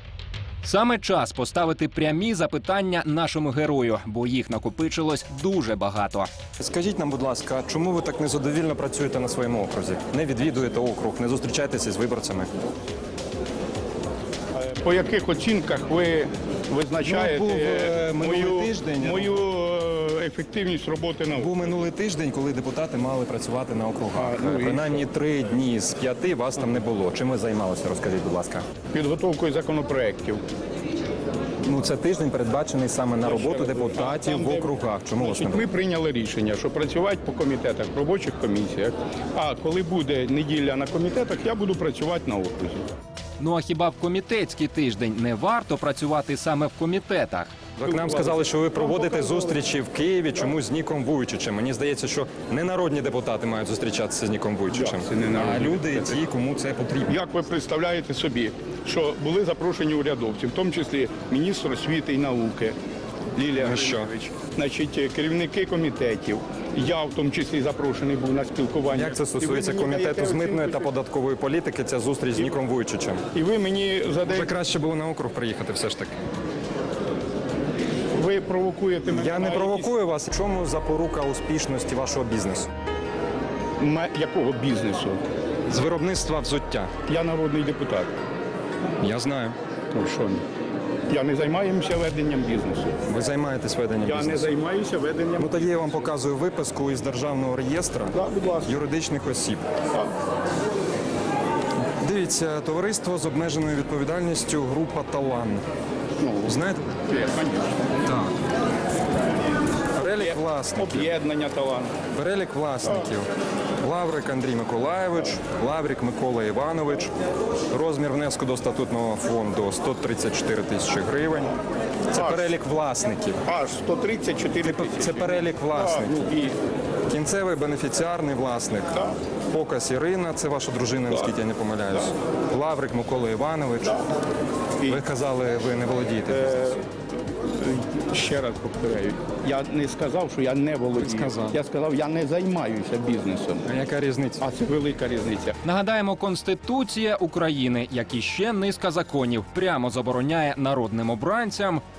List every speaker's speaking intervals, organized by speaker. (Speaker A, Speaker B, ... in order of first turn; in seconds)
Speaker A: 0.6-6.3, 43.4-47.7, 145.6-151.8
Speaker B: 6.6-12.5, 17.0-19.4, 21.3-28.6, 31.6-35.7, 47.8-57.2, 63.6-64.1, 68.9-73.2, 74.3-76.2, 79.1-82.7, 85.7-86.9, 89.0-89.6, 93.1-94.5, 95.4-99.7, 101.8-105.6, 106.5-106.9, 108.0-108.3, 110.0-111.1, 112.1-113.3, 113.8-117.1, 117.7-121.5, 122.1-123.4, 124.6-126.3, 127.1-129.0, 129.5-133.9, 134.9-136.8, 141.0-141.6, 143.7-144.4
Speaker C: 14.6-21.5, 24.1-25.1, 28.9-30.4, 33.2-42.9, 47.8-49.6, 54.7-56.2, 57.1-62.8, 63.4-70.9, 73.3-74.5, 78.2-79.9, 83.8-85.2, 87.1-88.1, 89.9-90.4, 91.1-93.0, 94.0-95.6, 98.1-98.7, 106.2-108.1, 110.0-112.0, 112.8-113.1, 122.1-122.5, 123.5-126.6, 136.3-136.8, 137.5-143.7, 144.4-145.6